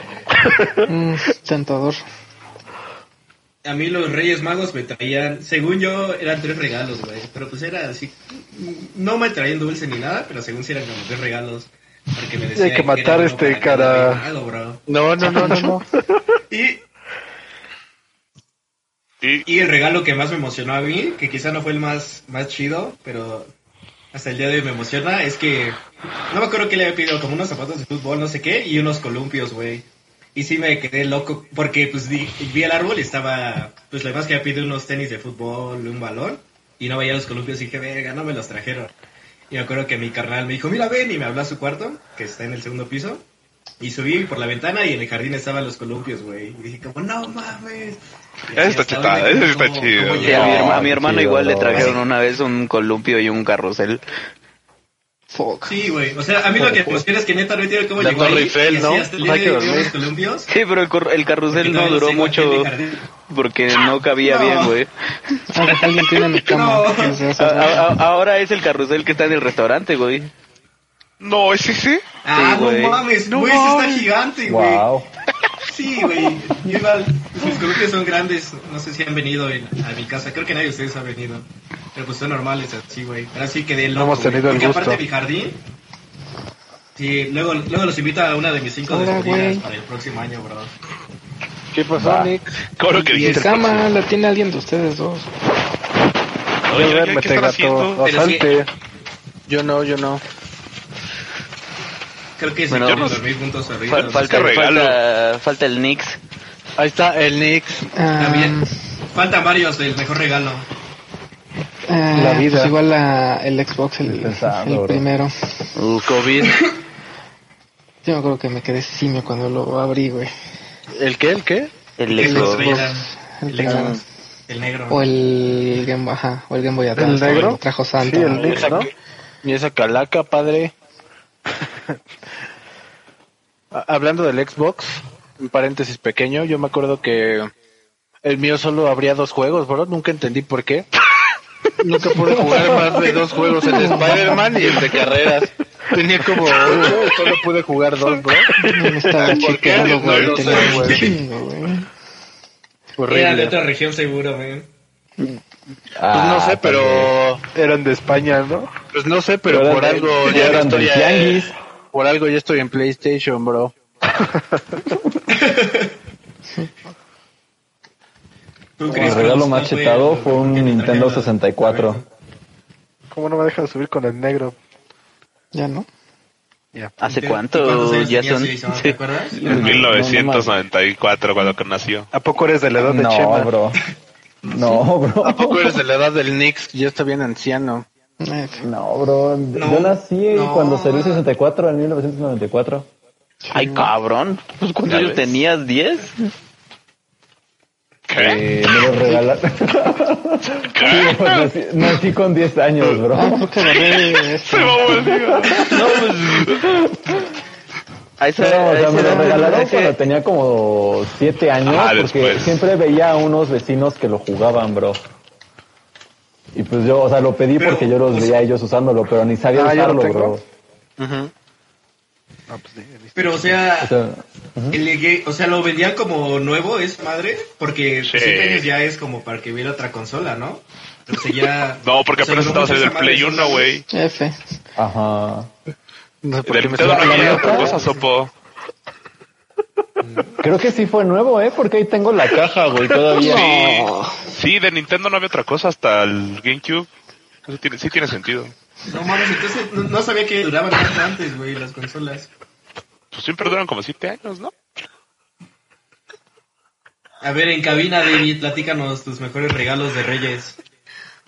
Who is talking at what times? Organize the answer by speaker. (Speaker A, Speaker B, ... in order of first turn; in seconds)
Speaker A: 0.9-2.0, 15.2-15.8, 55.3-55.8, 65.5-67.9, 88.9-89.7, 93.1-95.3, 108.0-108.7, 111.9-115.3, 118.0-120.3, 122.2-124.0, 124.9-128.7, 143.7-144.6, 148.6-151.9, 175.5-175.9, 188.2-188.7, 193.5-193.9, 203.1-205.3, 209.0-209.6, 233.9-234.4, 243.1-244.2
Speaker B: 3.6-14.8, 16.5-16.8, 19.4-23.5, 24.1-25.8, 26.3-38.9, 39.5-43.2, 43.8-50.9, 51.7-52.0, 55.7-60.5, 61.5-63.0, 64.2-64.8, 66.4-67.2, 72.2-74.9, 75.7-85.6, 87.0-90.8, 93.0-93.6, 98.0-98.6, 102.4-104.5, 108.2-110.7, 122.1-125.1, 150.0-151.2, 153.1-154.7, 165.3-165.9, 168.8-172.1, 177.0-179.8, 189.5-191.3, 217.6-218.4, 223.2-223.9, 224.7-233.7, 240.0-240.4, 248.9-252.3, 257.2-260.6
Speaker C: 12.6-14.3, 84.0-85.0, 96.7-98.7, 112.1-112.7, 127.0-128.9, 157.6-158.7, 168.9-169.3, 173.1-174.6, 182.1-183.6, 219.5-220.4, 222.5-223.7
Speaker D: 14.9-15.8, 58.0-59.9, 91.7-92.6, 99.5-100.2, 106.8-107.9, 116.0-116.6, 120.9-121.7, 123.7-124.0, 128.3-130.7, 133.7-137.5, 138.2-140.9, 141.8-148.6, 149.2-151.1, 153.0-153.6, 156.1-157.4, 158.9-163.7, 185.2-187.9, 221.0-221.3, 236.2-237.8
Speaker E: 48.5-50.7, 71.2-72.0, 73.3-74.1, 92.0-93.9, 96.7-98.0, 102.9-103.2, 104.2-105.0, 179.5-182.1, 194.9-195.4, 198.1-199.0, 200.5-201.5, 203.7-206.6, 211.7-212.6, 228.1-228.7, 231.8-233.8, 236.4-238.3, 243.2-246.9, 247.4-248.5, 253.1-254.5
Speaker F: 50.2-54.0, 60.5-62.7, 63.3-64.9, 67.4-70.3, 72.3-73.0, 102.7-103.1, 103.9-106.2, 115.8-116.1, 122.0-122.8, 177.0-179.0, 193.5-196.2, 205.5-206.5, 208.2-210.0
Speaker G: 50.3-52.0, 56.6-57.0, 74.4-75.1, 114.0-115.0, 146.6-147.1, 156.0-157.1, 159.5-161.6, 168.9-172.0, 179.4-180.5, 182.8-183.8, 184.4-185.8, 188.6-192.9, 198.2-203.6, 205.4-205.7, 206.6-207.3, 208.4-215.0, 216.5-220.4, 223.8-224.8, 234.8-235.5, 236.8-237.8, 240.4-243.6